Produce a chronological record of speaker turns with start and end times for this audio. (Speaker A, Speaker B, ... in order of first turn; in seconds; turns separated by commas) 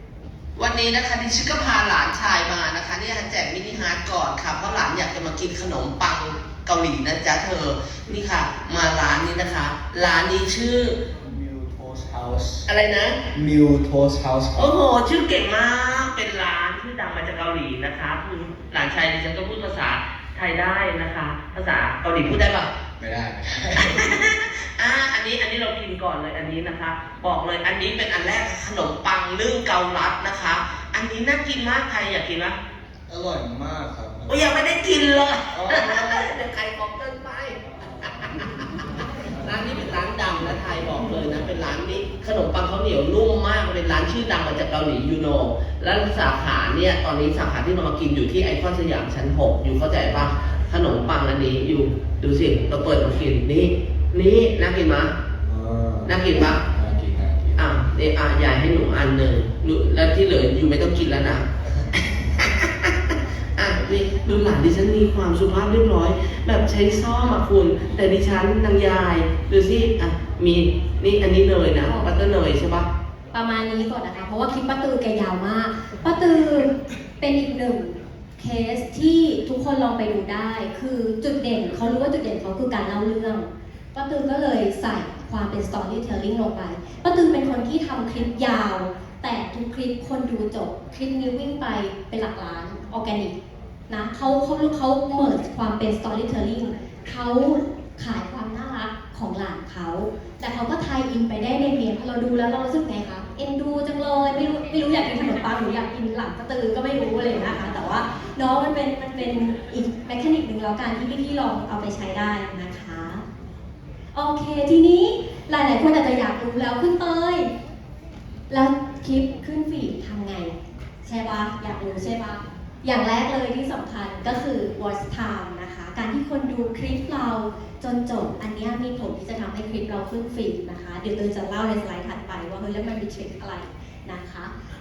Speaker A: 0.6-11.0, Speaker B: 11.2-12.7, Speaker A: 12.7-13.3, Speaker B: 13.3-14.7, Speaker A: 14.6-22.7, Speaker B: 23.0-24.1, Speaker A: 23.7-32.5, Speaker B: 33.1-34.6, Speaker A: 34.3-55.1, Speaker B: 35.5-36.2, Speaker B: 55.5-56.1, Speaker A: 56.0-56.6, Speaker B: 56.7-57.6, Speaker A: 57.6-72.9, Speaker C: 73.3-93.3, Speaker C: 93.9-113.2, Speaker C: 114.1-117.5, Speaker C: 118.5-134.5